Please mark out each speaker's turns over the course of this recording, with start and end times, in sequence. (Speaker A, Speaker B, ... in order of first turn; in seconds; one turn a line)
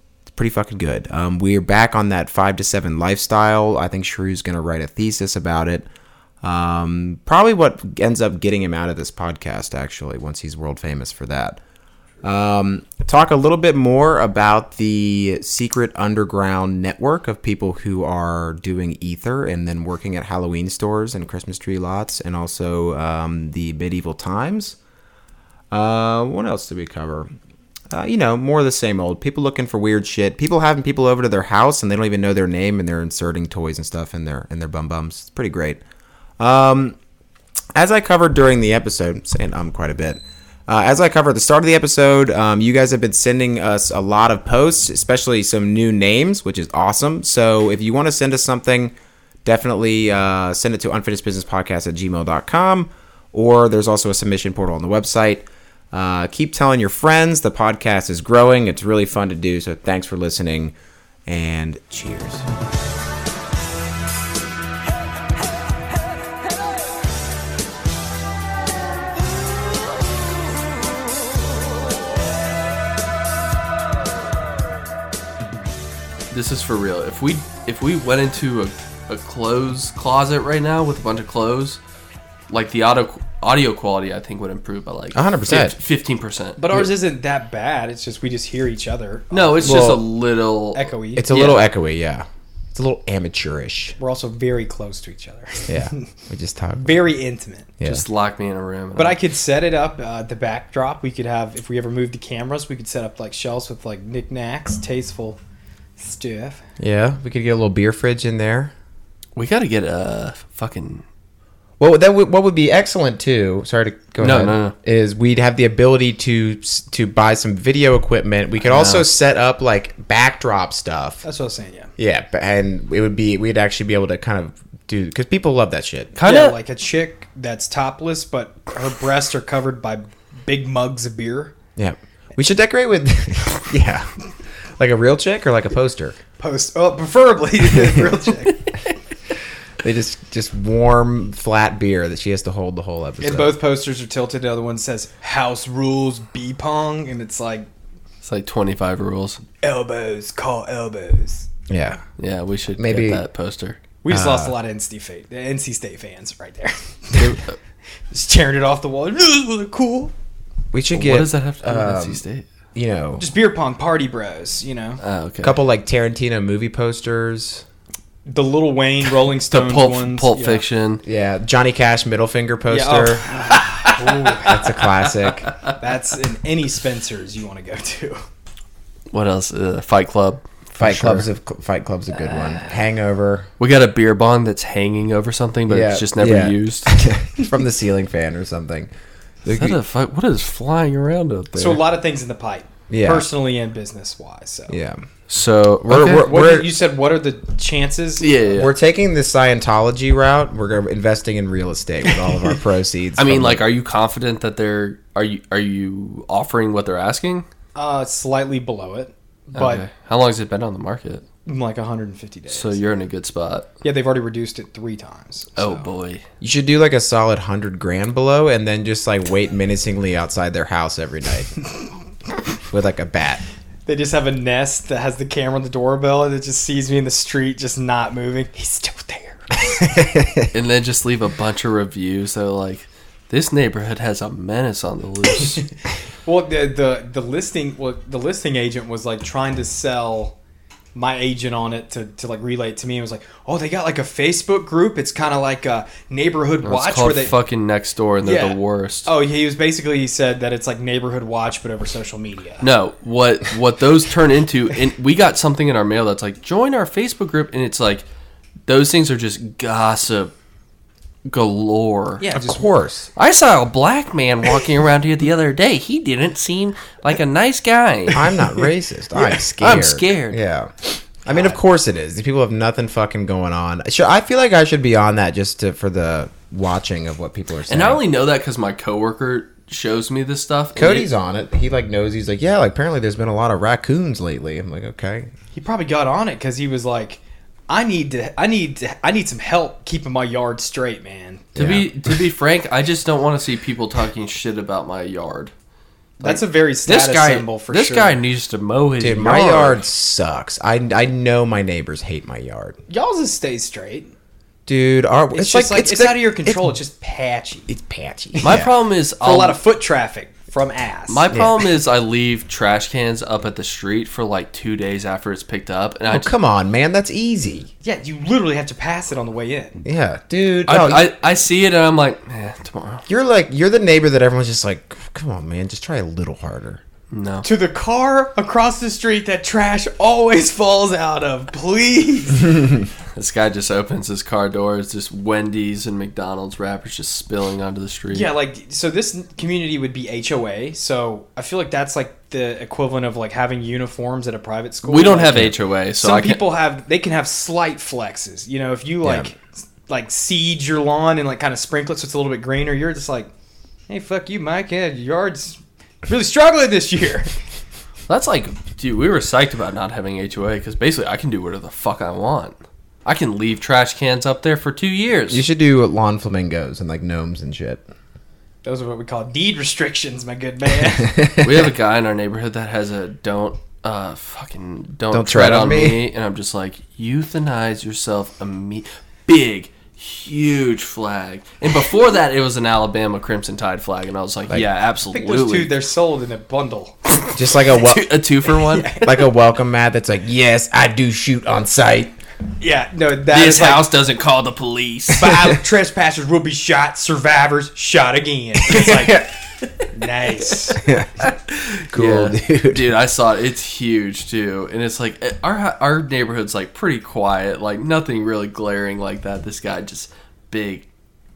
Speaker A: 0.3-5.9
Speaker A: 6.4-11.6
Speaker A: 12.2-24.8
Speaker A: 25.7-27.3
Speaker A: 27.9-35.8
Speaker A: 36.4-37.0
Speaker A: 37.7-48.9
Speaker A: 49.4-60.7
Speaker A: 61.3-62.5
Speaker B: 76.3-81.8
Speaker B: 82.5-86.8
Speaker A: 85.1-85.7
Speaker C: 86.6-89.9
Speaker B: 89.3-91.7
Speaker A: 89.6-90.0
Speaker C: 90.7-91.3
Speaker A: 91.2-94.0
Speaker C: 94.0-96.0
Speaker A: 95.7-97.0
Speaker C: 96.8-97.7
Speaker A: 97.8-98.0
Speaker B: 97.8-99.2
Speaker C: 98.9-105.4
Speaker C: 106.0-106.6
Speaker A: 106.8-108.7
Speaker B: 109.3-111.0
Speaker A: 111.8-121.2
Speaker B: 114.2-114.7
Speaker B: 118.6-119.1
Speaker C: 121.2-121.9
Speaker A: 122.0-126.1
Speaker B: 126.1-126.5
Speaker C: 126.2-131.5
Speaker A: 131.8-134.1
Speaker A: 134.8-136.2
Speaker C: 136.4-138.7
Speaker A: 137.8-138.1
Speaker A: 139.8-143.6
Speaker C: 143.2-147.7
Speaker B: 148.2-149.4
Speaker C: 149.6-151.5
Speaker A: 151.7-152.0
Speaker B: 152.2-153.8
Speaker A: 152.8-153.2
Speaker C: 154.0-157.4
Speaker A: 154.1-154.5
Speaker B: 157.2-157.5
Speaker C: 158.1-160.1
Speaker A: 160.7-162.2
Speaker B: 160.9-162.4
Speaker A: 162.7-163.2
Speaker C: 163.2-165.0
Speaker B: 165.0-165.6
Speaker A: 165.4-167.6
Speaker C: 168.3-170.6
Speaker B: 169.5-171.0
Speaker A: 171.0-173.2
Speaker C: 172.7-174.5
Speaker B: 173.9-174.3
Speaker A: 174.4-175.5
Speaker C: 175.8-178.2
Speaker B: 179.1-181.3
Speaker A: 180.8-183.5
Speaker B: 183.6-187.0
Speaker A: 185.7-188.9
Speaker A: 189.4-189.8
Speaker B: 189.5-191.8
Speaker C: 191.5-194.8
Speaker A: 192.9-193.3
Speaker A: 194.7-195.0
Speaker B: 195.3-196.2
Speaker A: 195.8-196.7
Speaker C: 195.9-198.3
Speaker B: 198.2-198.7
Speaker A: 198.5-203.6
Speaker B: 203.2-207.4
Speaker C: 207.7-209.8
Speaker B: 209.5-211.2
Speaker C: 211.4-212.8
Speaker B: 212.5-213.7
Speaker C: 213.8-215.9
Speaker B: 215.6-216.2
Speaker A: 216.4-221.5
Speaker A: 222.7-223.4
Speaker C: 223.8-229.6
Speaker A: 229.6-230.5
Speaker B: 230.5-235.7
Speaker C: 236.2-240.3
Speaker C: 240.9-247.3
Speaker B: 246.6-249.1
Speaker C: 248.2-252.6
Speaker B: 252.6-258.0
Speaker B: 258.7-260.3
Speaker B: 261.3-262.2
Speaker C: 262.2-262.7
Speaker A: 262.3-263.1
Speaker B: 263.1-268.4
Speaker A: 268.1-278.0
Speaker B: 269.2-270.4
Speaker C: 271.3-271.6
Speaker B: 277.7-281.1
Speaker A: 280.8-285.3
Speaker C: 285.5-291.5
Speaker A: 291.5-291.9
Speaker B: 291.6-295.5
Speaker C: 296.2-298.2
Speaker B: 296.9-299.8
Speaker A: 299.0-302.8
Speaker C: 302.9-304.1
Speaker A: 304.7-306.7
Speaker C: 305.3-307.7
Speaker A: 307.7-308.7
Speaker B: 308.4-309.6
Speaker C: 309.2-311.2
Speaker B: 311.1-316.3
Speaker A: 311.3-311.6
Speaker A: 316.1-317.7
Speaker C: 317.8-319.8
Speaker A: 319.8-321.1
Speaker B: 320.7-323.0
Speaker A: 323.1-326.8
Speaker B: 327.1-327.4
Speaker C: 327.4-332.5
Speaker B: 333.1-338.3
Speaker C: 338.1-353.3
Speaker B: 344.9-346.4
Speaker A: 349.0-349.3
Speaker C: 353.9-357.3
Speaker B: 358.1-365.4
Speaker A: 365.3-367.8
Speaker C: 368.6-371.1
Speaker A: 371.0-371.7
Speaker B: 371.4-385.7
Speaker A: 375.1-376.0
Speaker C: 385.1-387.0
Speaker B: 387.1-389.0
Speaker A: 387.3-388.2
Speaker C: 388.7-389.1
Speaker A: 389.0-392.1
Speaker C: 392.6-393.8
Speaker B: 393.3-395.4
Speaker C: 395.2-399.3
Speaker A: 395.3-395.6
Speaker A: 398.6-399.3
Speaker C: 399.8-400.8
Speaker A: 400.7-401.2
Speaker B: 401.5-410.9
Speaker A: 401.9-402.9